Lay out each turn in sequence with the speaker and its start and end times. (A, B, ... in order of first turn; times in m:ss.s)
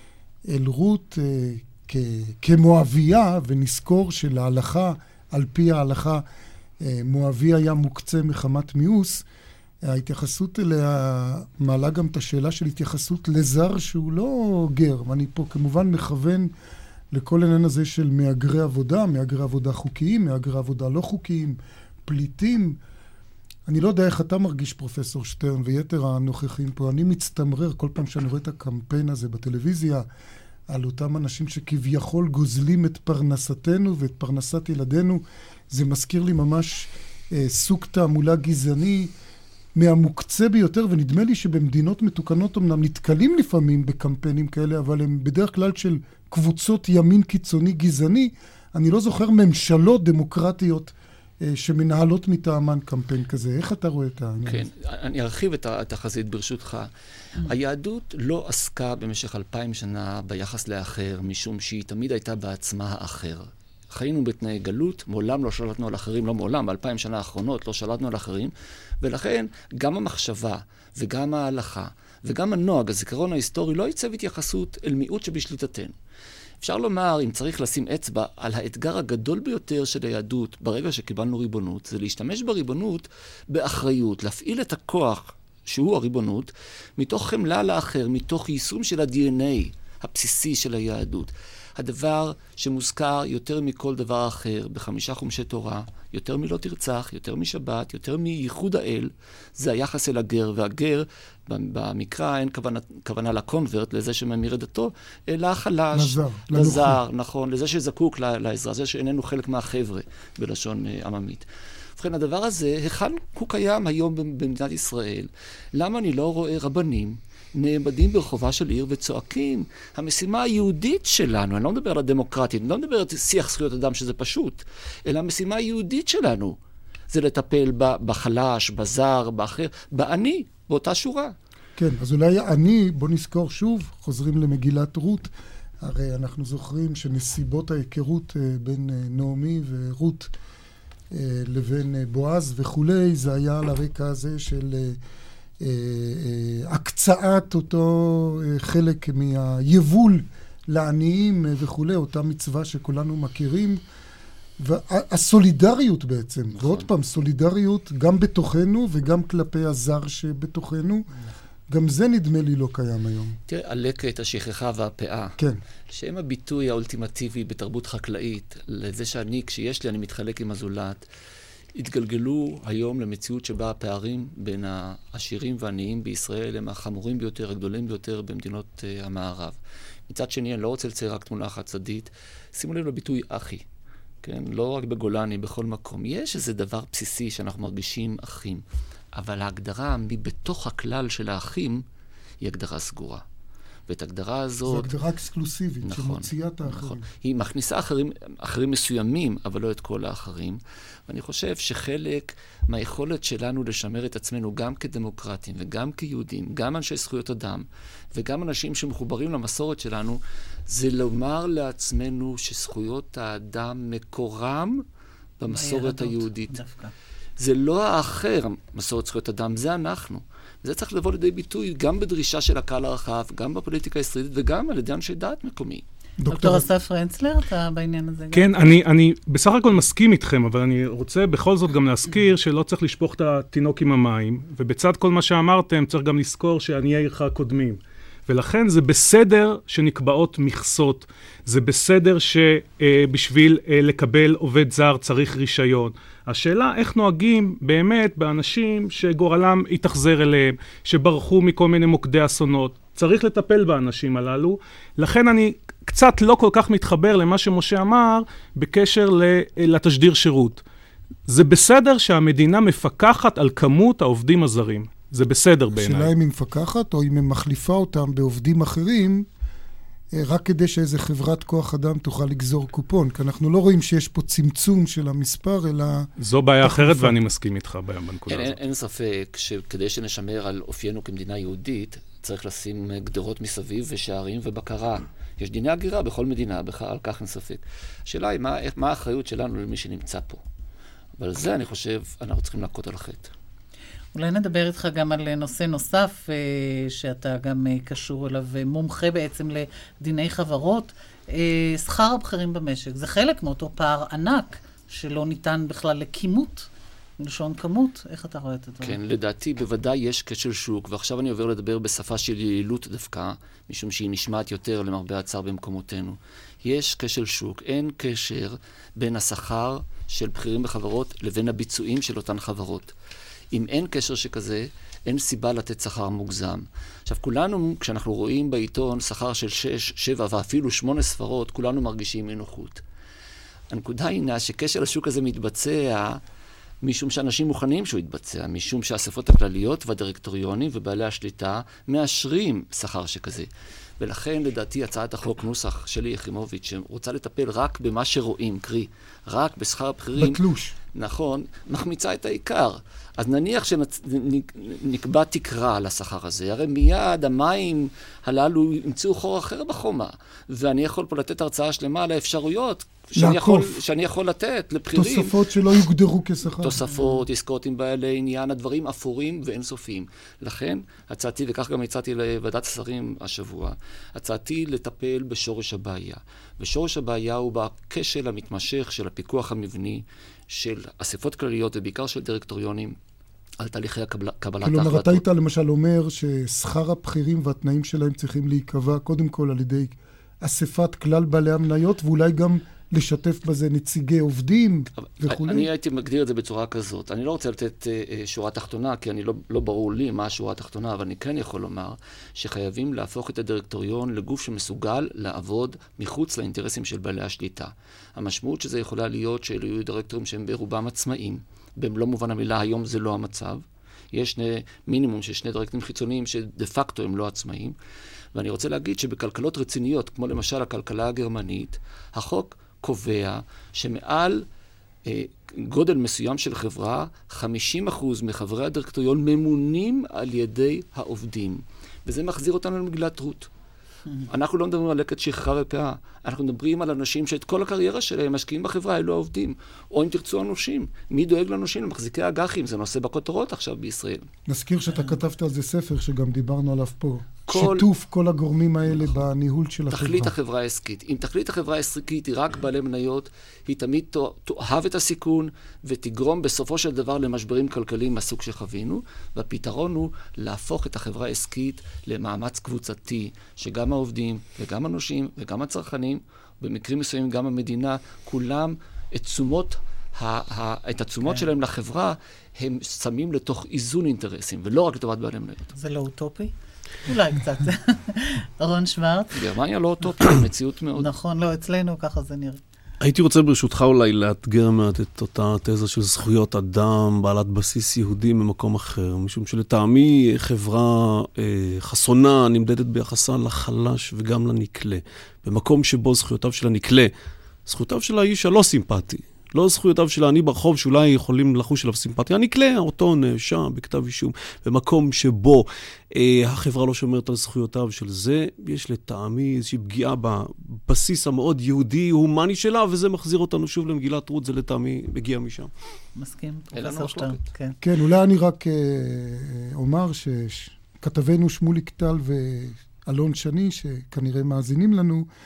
0:00.5-0:06.2 A
0:06.8-0:09.2 A
0:09.8-0:16.5 A
0:17.1-0:22.8 A
0:23.7-0:30.0 A
0:30.7-0:39.1 A
0:39.7-0:54.7 A
0:54.4-0:56.9 B
0:57.4-1:15.9 B
1:16.6-1:51.4 B
1:45.9-1:47.0 A
1:52.0-2:06.6 B
2:07.1-2:11.3 B
2:11.8-2:15.3 A
2:15.8-2:20.3 A
2:21.1-2:25.0 A
2:25.6-2:33.8 A
2:34.6-2:41.1 A
2:36.6-2:36.9 B
2:41.7-2:43.4 A
2:43.5-2:45.3 B
2:45.9-2:51.0 B
2:51.7-2:59.6 B
3:00.1-3:03.6 B
3:04.2-3:08.6 B
3:09.1-3:11.8 B
3:12.4-3:13.2 B
3:13.9-3:14.9 B
3:14.6-3:17.0 A
3:15.8-3:34.8 B
3:35.4-3:36.5 B
3:35.5-3:36.9 C
3:37.4-3:45.8 B
3:46.2-3:46.7 A
3:46.3-3:48.6 C
3:48.3-4:20.6 D
4:21.3-4:26.1 D
4:25.7-4:29.3 A
4:30.1-4:36.1 A
4:36.2-4:38.5 D
4:36.6-4:37.1 A
4:38.3-4:50.4 B
4:51.2-4:53.3 B
4:54.1-5:09.0 C
5:08.8-5:22.9 B
5:23.5-5:32.8 B
5:33.7-5:36.2 B
5:36.8-5:43.5 B
5:44.0-5:50.4 B
5:50.2-5:50.7 A
5:50.9-6:05.3 B
6:03.2-6:03.7 A
6:04.9-6:06.8 A
6:06.6-6:23.0 B
6:23.6-6:25.2 B
6:24.6-6:35.7 A
6:35.2-6:57.7 B
6:58.3-7:04.4 B
7:05.0-7:13.5 B
7:14.3-7:24.3 B
7:24.5-7:30.3 A
7:27.5-7:27.9 B
7:29.9-7:55.7 B
7:55.7-7:56.5 C
7:57.0-7:59.4 C
7:59.3-8:01.1 B
8:01.0-8:02.6 C
8:03.0-8:17.1 E
8:17.6-8:35.7 E
8:36.1-8:37.8 C
8:36.7-8:37.4 B
8:37.8-8:45.2 A